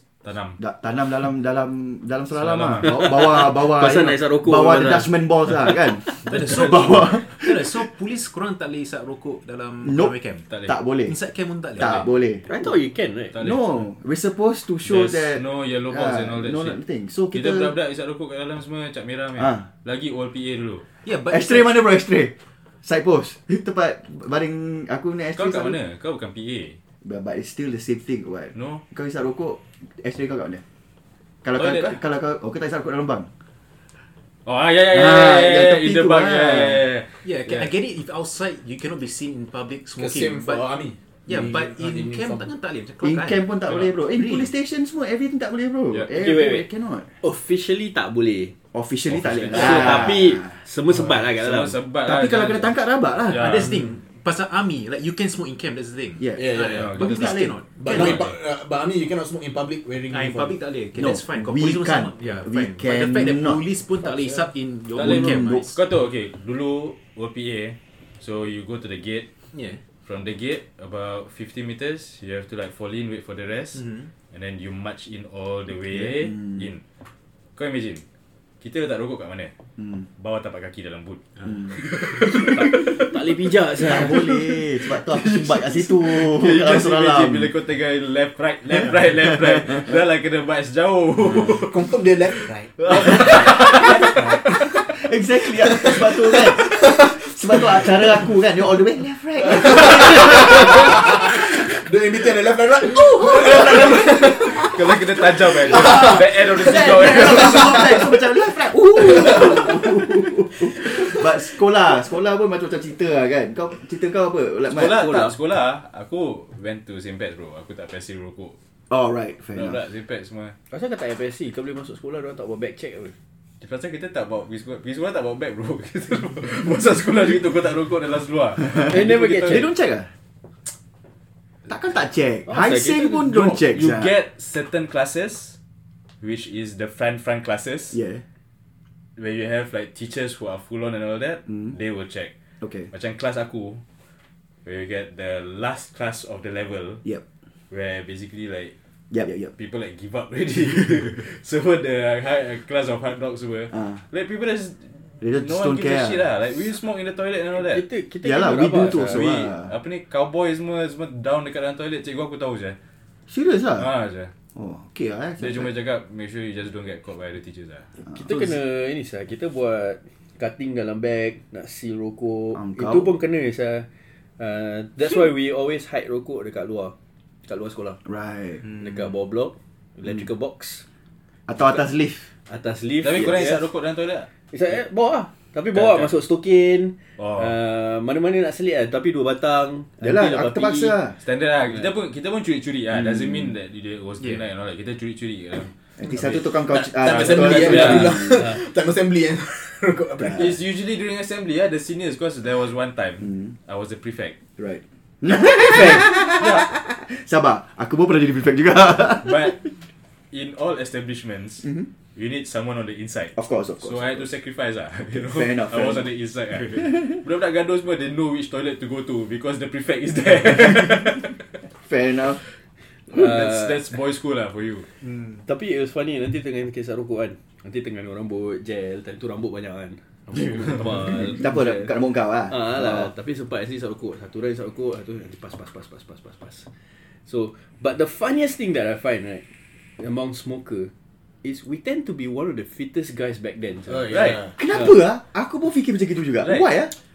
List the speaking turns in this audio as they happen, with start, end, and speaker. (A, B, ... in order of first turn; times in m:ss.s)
0:00.2-0:00.6 A
0:00.6-0:07.8 B
0:02.3-0:03.3 A
0:02.8-0:05.1 C
0:06.2-0:10.5 D
0:09.8-0:10.1 B
0:10.5-0:10.7 A
0:10.6-0:11.2 B
0:11.0-0:12.0 D
0:11.7-0:12.4 B
0:12.5-0:13.3 C
0:13.3-0:13.8 A
0:13.4-0:17.7 B
0:14.8-0:16.8 A
0:17.3-0:20.8 A
0:19.4-0:19.6 B
0:21.0-0:21.8 D
0:21.3-0:25.8 B
0:25.4-0:26.8 A
0:27.0-0:30.6 B
0:28.5-0:28.8 A
0:31.4-0:33.3 B
0:31.6-0:32.0 A
0:34.4-0:37.7 A
0:34.9-0:36.8 B
0:37.2-0:40.7 D
0:40.0-0:42.5 E
0:41.2-0:44.5 D
0:43.0-0:47.1 B
0:46.1-0:46.7 C
0:47.2-0:48.5 C
0:48.7-0:50.5 B
0:49.1-0:50.2 A
0:49.5-0:51.8 C
0:50.9-0:52.8 A
0:52.0-0:53.7 B
0:53.3-0:53.8 A
0:53.3-0:58.2 D
0:56.2-0:58.2 B
0:56.4-0:56.8 C
0:56.7-0:58.3 A
0:57.8-1:00.7 E
1:00.1-1:05.8 D
1:00.9-1:03.6 B
1:04.9-1:09.2 A
1:05.0-1:05.7 B
1:09.5-1:09.8 D
1:10.0-1:16.8 A
1:13.7-1:14.1 D
1:15.9-1:16.6 B
1:17.6-1:18.0 A
1:18.6-1:19.5 A
1:19.8-1:20.0 B
1:20.2-1:21.8 A
1:21.5-1:21.7 B
1:22.3-1:24.6 C
1:23.8-1:27.5 B
1:26.0-1:34.4 A
1:31.5-1:34.8 E
1:33.7-1:34.1 B
1:34.9-1:41.1 B
1:35.8-1:38.0 E
1:39.4-1:48.0 E
1:42.8-1:44.2 B
1:44.5-1:48.1 A
1:45.7-1:55.3 B
1:49.2-1:49.8 E
1:50.8-1:51.2 E
1:54.6-1:58.6 A
1:58.9-1:59.8 B
1:59.5-2:00.6 A
2:00.7-2:03.1 C
2:03.6-2:09.7 A
2:08.9-2:09.7 C
2:09.4-2:10.1 B
2:11.7-2:14.1 B
2:12.5-2:13.2 C
2:13.2-2:15.6 A
2:16.2-2:18.0 A
2:17.9-2:18.2 B
2:19.2-2:22.3 A
2:22.6-2:22.9 B
2:22.9-2:23.8 A
2:24.6-2:27.0 A
2:27.7-2:28.7 A
2:29.1-2:29.5 B
2:29.3-2:37.8 A
2:35.2-2:36.2 B
2:37.6-2:39.5 C
2:38.2-2:39.7 B
2:38.9-2:42.8 A
2:43.3-2:43.9 B
2:43.8-2:44.3 A
2:44.5-2:45.7 B
2:45.4-2:47.9 A
2:48.0-2:48.4 B
2:48.1-2:53.9 C
2:52.5-2:53.1 B
2:54.4-2:58.0 C
2:58.0-2:58.6 B
2:58.7-3:00.8 C
3:01.5-3:02.3 B
3:02.5-3:03.6 C
3:03.0-3:04.3 A
3:04.5-3:11.0 C
3:05.7-3:06.1 A
3:07.2-3:07.5 A
3:10.0-3:11.2 B
3:11.2-3:16.4 A
3:12.9-3:13.5 B
3:14.2-3:14.4 D
3:16.0-3:18.4 B
3:16.7-3:20.6 E
3:17.0-3:18.1 A
3:17.6-3:18.6 C
3:20.2-3:20.6 B
3:20.3-3:24.4 A
3:24.6-3:29.5 B
3:25.7-3:26.0 C
3:26.2-3:26.7 A
3:29.2-3:29.6 A
3:30.3-3:41.4 A
3:33.4-3:34.2 B
3:35.1-3:36.1 B
3:41.8-3:42.4 B
3:43.1-3:44.9 A
3:43.1-3:43.9 C
3:45.4-3:51.9 C
3:51.0-3:53.1 B
3:52.5-3:56.7 C
3:57.2-3:59.4 C
4:00.0-4:00.9 C
4:01.4-4:04.9 C
4:03.9-4:04.5 E
4:04.1-4:06.9 B
4:06.4-4:06.7 A